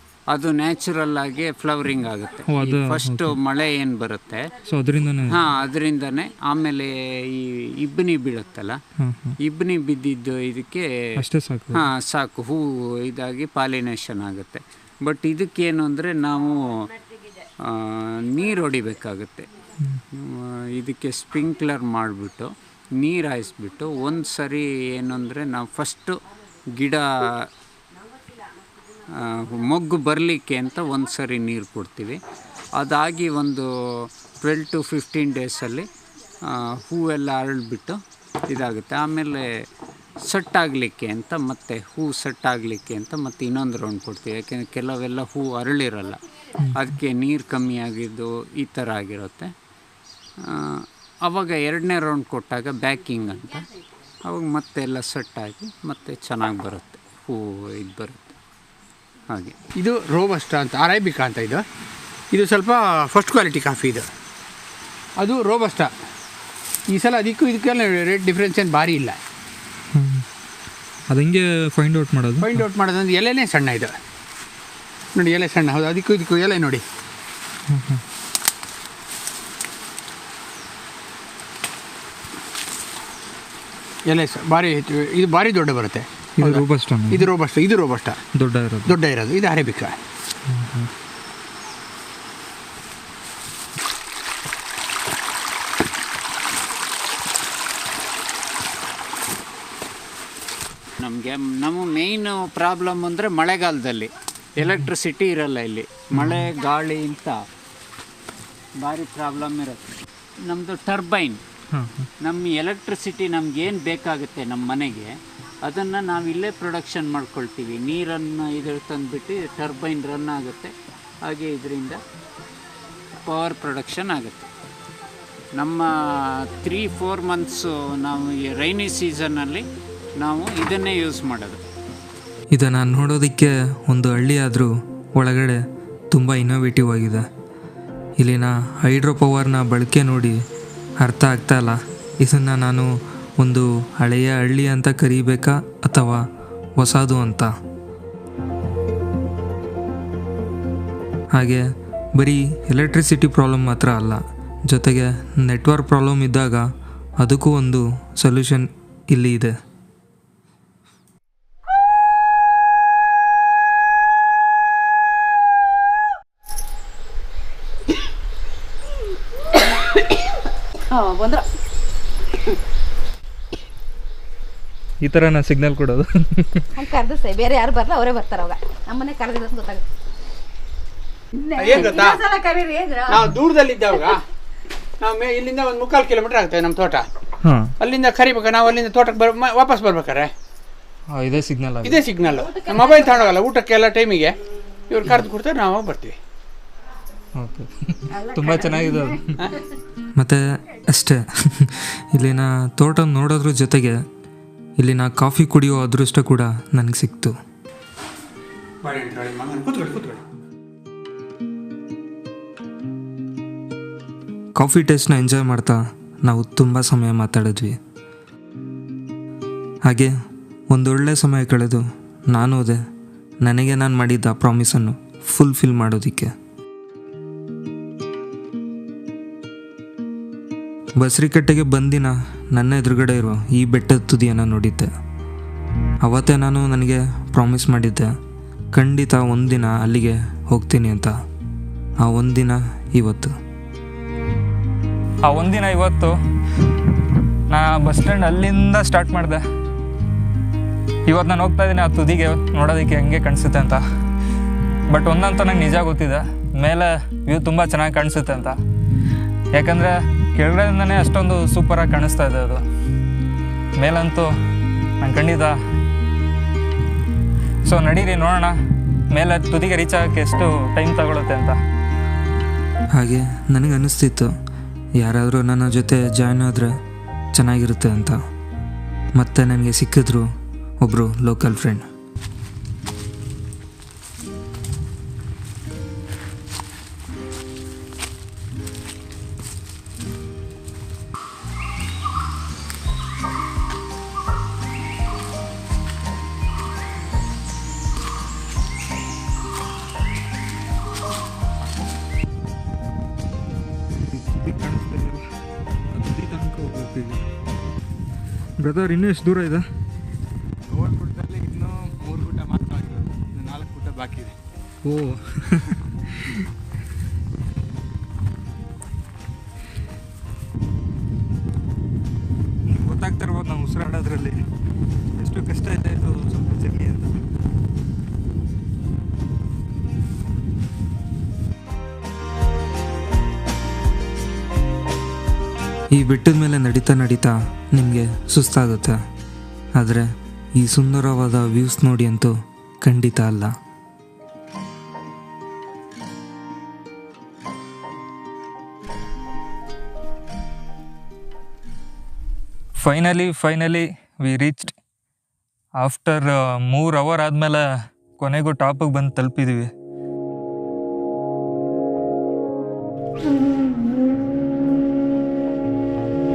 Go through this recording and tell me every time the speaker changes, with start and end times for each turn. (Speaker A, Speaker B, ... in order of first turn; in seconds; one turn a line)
Speaker A: 0.3-4.5
Speaker B: 2.5-3.3
Speaker B: 4.7-5.4
Speaker A: 5.2-8.8
Speaker B: 9.0-9.3
Speaker A: 9.4-11.2
Speaker B: 11.2-11.8
Speaker A: 11.7-16.9
Speaker A: 17.6-19.5
Speaker A: 20.1-26.2
Speaker A: 26.7-27.5
Speaker A: 29.1-32.2
Speaker A: 32.7-35.9
Speaker A: 36.4-39.7
Speaker A: 40.2-46.2
Speaker A: 46.8-49.5
Speaker A: 50.4-53.7
Speaker A: 54.2-58.4
Speaker A: 59.3-59.6
Speaker C: 59.8-61.6
Speaker C: 62.3-64.1
Speaker C: 65.2-65.9
Speaker C: 66.9-69.2
Speaker B: 70.0-70.2
Speaker B: 71.1-72.6
Speaker C: 72.4-73.9
Speaker C: 75.2-76.8
Speaker B: 77.7-78.0
Speaker C: 84.1-88.2
Speaker B: 86.4-87.2
Speaker B: 88.4-88.9
Speaker C: 88.9-90.0
Speaker B: 90.5-90.9
Speaker A: 101.0-107.5
Speaker D: 106.2-106.5
Speaker A: 108.8-109.9
Speaker A: 110.5-111.4
Speaker B: 111.7-112.1
Speaker A: 112.2-122.0
Speaker A: 123.2-124.5
Speaker A: 125.6-129.7
Speaker A: 130.2-131.6
Speaker D: 132.5-137.2
Speaker D: 138.2-140.4
Speaker D: 141.0-146.2
Speaker D: 146.8-147.5
Speaker D: 151.4-151.6
Speaker D: 152.2-156.6
Speaker D: 157.2-159.5
Speaker E: 170.9-171.4
Speaker B: 175.0-176.7
Speaker E: 176.8-179.8
Speaker E: 181.5-183.2
Speaker C: 181.6-182.3
Speaker C: 183.1-184.2
Speaker C: 185.0-187.1
Speaker C: 187.8-190.3
Speaker B: 191.1-192.0
Speaker C: 191.8-194.3
Speaker C: 194.9-196.2
Speaker B: 197.4-199.5
Speaker D: 200.2-204.0
Speaker D: 204.8-207.3
Speaker C: 208.8-210.2
Speaker D: 214.6-217.8
Speaker D: 219.9-220.1
Speaker D: 220.7-222.8
Speaker D: 223.4-226.3
Speaker D: 231.0-234.9
Speaker D: 236.0-238.1
Speaker D: 238.7-241.1
Speaker D: 242.0-243.3
Speaker B: 245.2-246.2
Speaker B: 247.5-249.4
Speaker B: 251.1-253.8
Speaker B: 254.9-258.6
Speaker B: 259.6-262.6
Speaker B: 263.8-264.3
Speaker B: 265.0-265.6
Speaker B: 267.6-268.6
Speaker B: 269.1-271.6
Speaker D: 272.9-274.3
Speaker D: 275.0-276.7
Speaker D: 277.3-278.2
Speaker D: 279.2-280.3
Speaker D: 280.8-281.8
Speaker B: 304.1-305.2
Speaker B: 305.9-307.2
Speaker B: 308.6-309.6
Speaker C: 310.8-311.4
Speaker B: 314.9-315.8
Speaker B: 322.7-324.4
Speaker B: 325.2-327.2
Speaker D: 335.9-339.0
Speaker D: 339.8-343.5
Speaker B: 352.8-354.7
Speaker B: 355.8-357.6
Speaker B: 358.2-359.7